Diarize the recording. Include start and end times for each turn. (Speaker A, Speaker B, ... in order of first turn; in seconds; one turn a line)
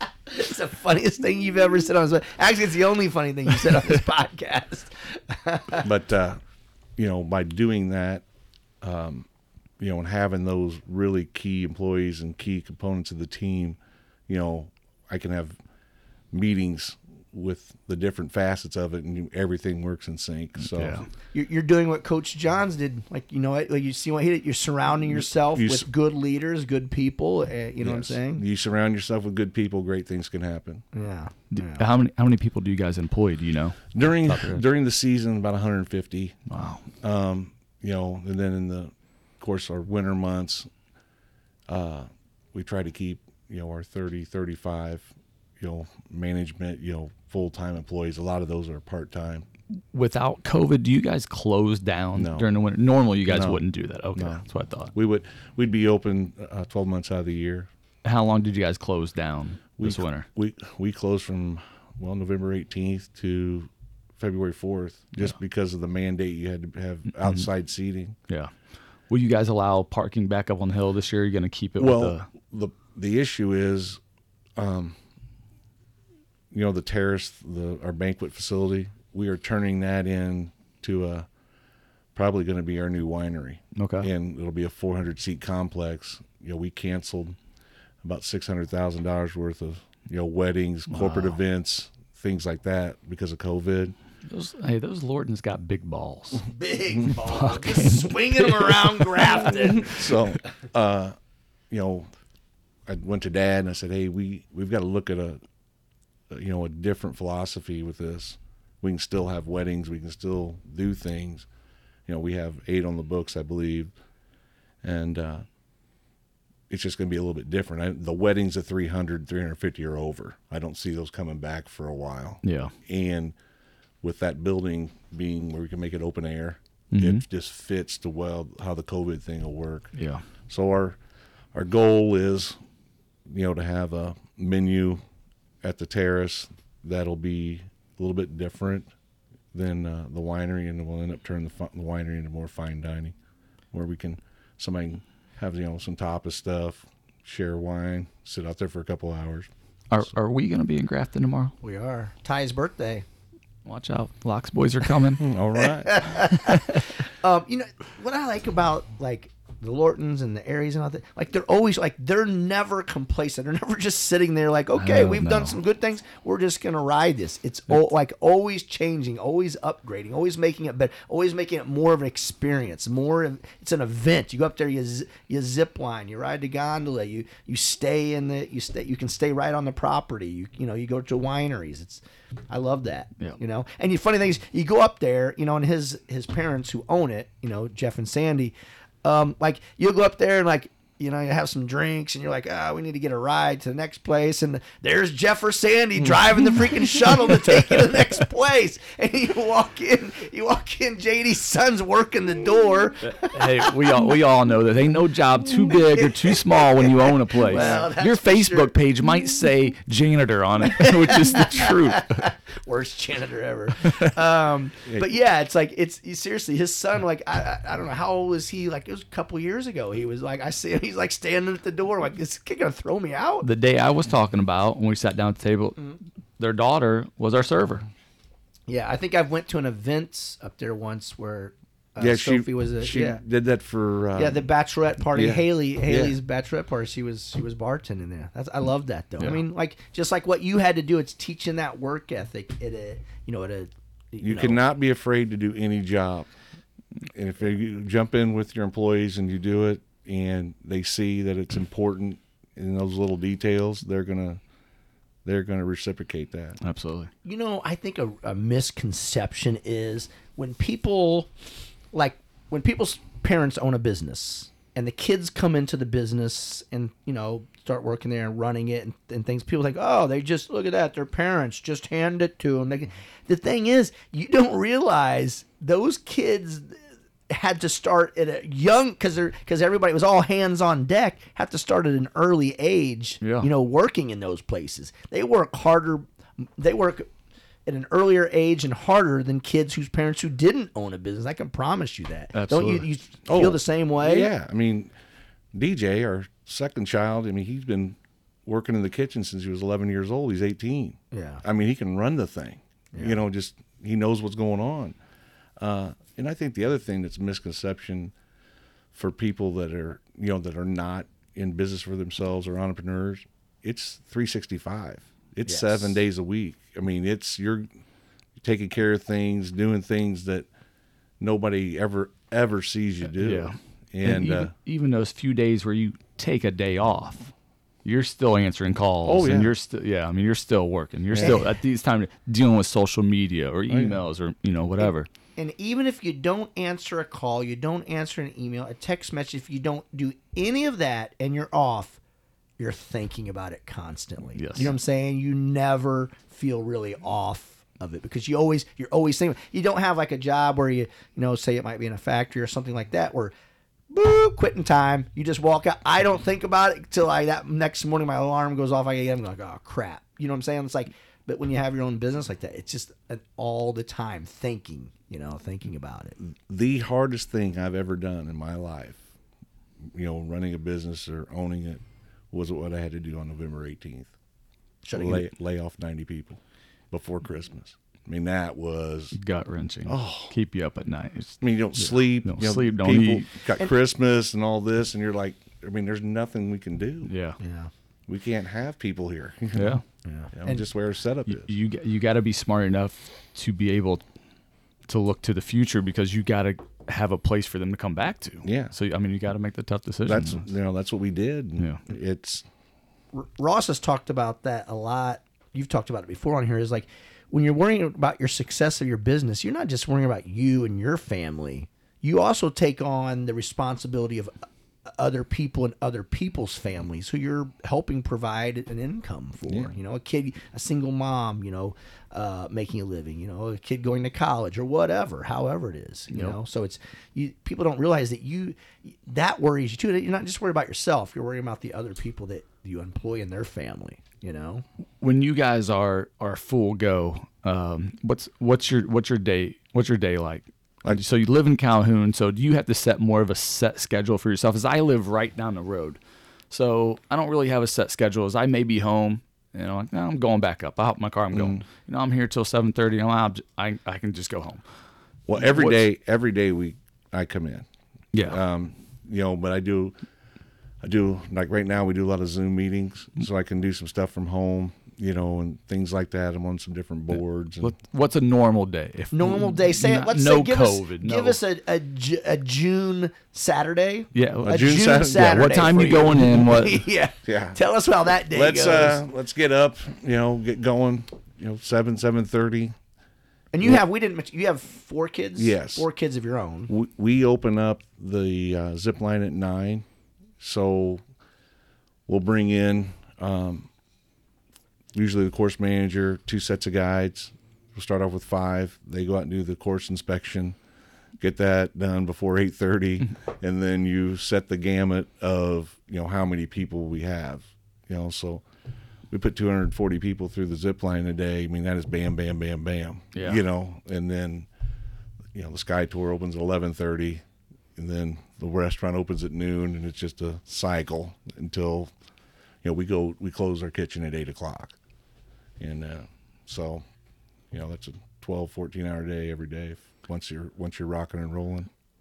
Speaker A: 0.3-5.9
Speaker B: 5.8-6.4
Speaker B: 7.0-8.2
Speaker B: 8.8-9.3
Speaker B: 9.8-15.6
Speaker B: 16.3-21.1
Speaker C: 20.6-21.1
Speaker A: 21.3-28.4
Speaker B: 25.6-25.9
Speaker B: 27.8-30.8
Speaker A: 30.9-31.9
Speaker C: 31.5-34.6
Speaker B: 33.9-40.7
Speaker C: 36.5-36.8
Speaker B: 41.7-49.5
Speaker C: 49.9-54.9
Speaker B: 52.1-52.5
Speaker B: 53.3-53.6
Speaker B: 54.1-57.7
Speaker C: 58.0-60.3
Speaker B: 59.8-68.2
Speaker C: 69.1-72.3
Speaker B: 71.8-74.0
Speaker B: 74.6-75.0
Speaker B: 76.5-81.3
Speaker B: 82.2-87.4
Speaker C: 83.8-84.1
Speaker B: 88.0-94.0
Speaker C: 90.9-91.4
Speaker C: 94.3-96.5
Speaker A: 96.5-99.9
Speaker C: 97.1-99.8
Speaker B: 99.9-101.2
Speaker B: 101.7-102.1
Speaker B: 102.9-105.4
Speaker B: 106.3-111.5
Speaker B: 112.1-113.9
Speaker B: 114.8-115.5
Speaker B: 116.7-123.3
Speaker C: 122.4-122.7
Speaker B: 124.0-129.9
Speaker C: 126.9-127.2
Speaker C: 130.0-130.2
Speaker B: 130.5-131.0
Speaker B: 131.5-132.6
Speaker B: 133.3-135.0
Speaker B: 135.6-138.9
Speaker B: 139.5-143.2
Speaker B: 143.7-149.5
Speaker C: 149.9-151.5
Speaker A: 151.6-153.1
Speaker C: 153.7-155.2
Speaker B: 155.2-156.2
Speaker A: 155.6-203.5
Speaker C: 164.8-165.6
Speaker C: 203.2-212.2
Speaker A: 206.3-208.7
Speaker A: 210.8-223.5
Speaker C: 223.4-227.9
Speaker A: 228.7-233.2
Speaker B: 232.0-234.4
Speaker A: 234.2-244.6
Speaker B: 235.2-236.2
Speaker B: 244.2-246.3
Speaker B: 247.1-254.4
Speaker B: 255.2-256.6
Speaker C: 256.6-257.1
Speaker A: 257.2-261.3
Speaker A: 261.9-287.1
Speaker C: 283.2-283.5
Speaker A: 287.7-294.3
Speaker C: 292.3-292.9
Speaker B: 293.3-294.9
Speaker B: 295.5-305.0
Speaker A: 301.1-301.4
Speaker B: 305.6-308.1
Speaker B: 308.9-317.7
Speaker A: 315.5-315.9
Speaker B: 318.4-320.5
Speaker B: 321.2-324.5
Speaker C: 323.2-327.3
Speaker C: 327.9-335.1
Speaker B: 329.1-329.5
Speaker B: 331.1-331.4
Speaker A: 331.2-331.5
Speaker B: 333.7-334.0
Speaker A: 335.4-342.0
Speaker A: 342.6-353.3
Speaker C: 344.4-344.7
Speaker A: 353.9-366.2
Speaker B: 366.2-369.0
Speaker B: 369.8-374.1
Speaker A: 374.8-375.3
Speaker B: 374.9-379.2
Speaker C: 379.2-383.3
Speaker B: 379.9-380.3
Speaker B: 381.4-387.1
Speaker C: 387.1-387.4
Speaker A: 387.4-387.7
Speaker B: 388.1-389.8
Speaker C: 389.5-389.8
Speaker A: 390.1-390.6
Speaker B: 390.3-391.5
Speaker C: 391.3-394.1
Speaker C: 394.9-400.5
Speaker B: 398.4-398.7
Speaker B: 400.1-402.5
Speaker C: 401.6-401.8
Speaker A: 403.1-434.6
Speaker B: 419.5-419.7
Speaker C: 426.1-426.4
Speaker C: 435.0-446.0
Speaker C: 446.5-454.6
Speaker B: 451.3-451.6
Speaker B: 455.3-457.7
Speaker C: 455.4-455.8
Speaker C: 458.1-458.4
Speaker B: 458.2-460.0
Speaker B: 460.8-467.7
Speaker C: 467.6-471.4
Speaker A: 469.1-479.0
Speaker C: 474.1-476.8
Speaker B: 474.4-475.6
Speaker B: 477.3-477.6
Speaker B: 478.3-482.8
Speaker A: 483.5-486.7
Speaker B: 485.4-485.9
Speaker B: 486.7-489.9
Speaker B: 490.4-491.0
Speaker B: 492.1-493.7
Speaker B: 494.9-500.6
Speaker B: 501.2-508.4
Speaker B: 509.1-514.5
Speaker C: 513.1-513.4
Speaker B: 515.3-517.2
Speaker B: 517.8-521.9
Speaker B: 522.6-524.8
Speaker B: 525.6-526.9
Speaker B: 527.5-531.7